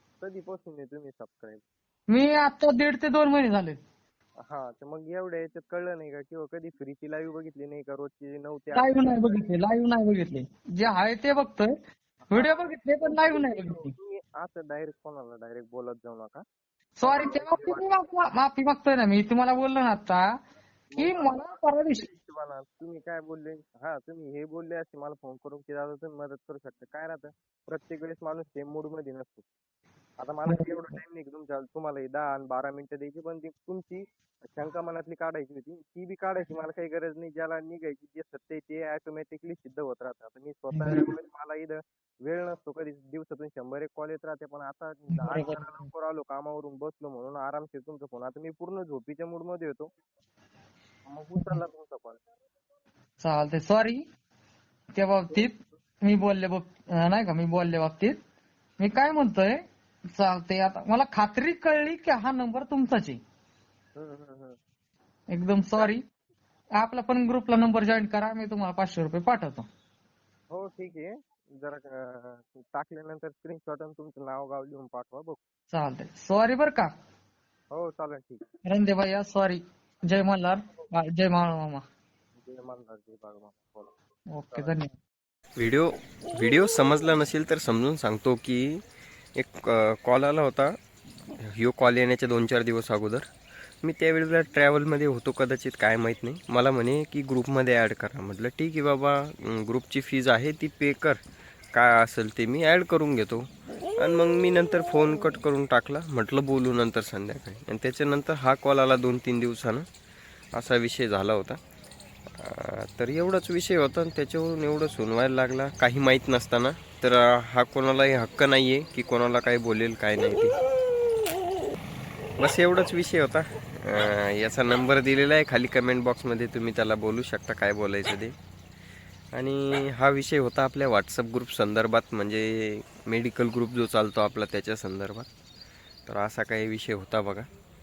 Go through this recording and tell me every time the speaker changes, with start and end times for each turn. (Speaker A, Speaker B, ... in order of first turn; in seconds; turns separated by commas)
Speaker A: 0.2-1.6, Speaker B: 2.1-3.8, Speaker A: 4.4-9.5, Speaker B: 8.7-11.7, Speaker A: 12.3-16.4, Speaker B: 12.3-13.9, Speaker B: 17.0-20.2, Speaker A: 17.0-17.9, Speaker A: 20.9-29.5, Speaker B: 21.0-22.1, Speaker A: 30.2-49.9, Speaker B: 30.4-31.0, Speaker B: 40.7-41.1, Speaker B: 45.1-45.9, Speaker A: 51.1-52.2, Speaker B: 53.2-54.0, Speaker B: 55.0-58.2, Speaker B: 58.8-59.6, Speaker B: 60.1-63.2, Speaker A: 64.0-64.6, Speaker B: 65.3-66.0, Speaker B: 66.8-69.7, Speaker A: 70.5-75.4, Speaker B: 75.7-76.9, Speaker A: 77.7-78.5, Speaker B: 78.6-81.8, Speaker A: 82.4-83.9, Speaker B: 84.3-85.0, Speaker A: 84.5-84.8, Speaker C: 85.6-88.8, Speaker C: 89.4-90.8, Speaker C: 91.4-93.2, Speaker C: 93.8-101.2, Speaker C: 101.7-109.9, Speaker C: 110.5-111.6, Speaker C: 112.4-120.6, Speaker C: 122.4-128.3, Speaker C: 129.3-135.3, Speaker C: 136.1-137.5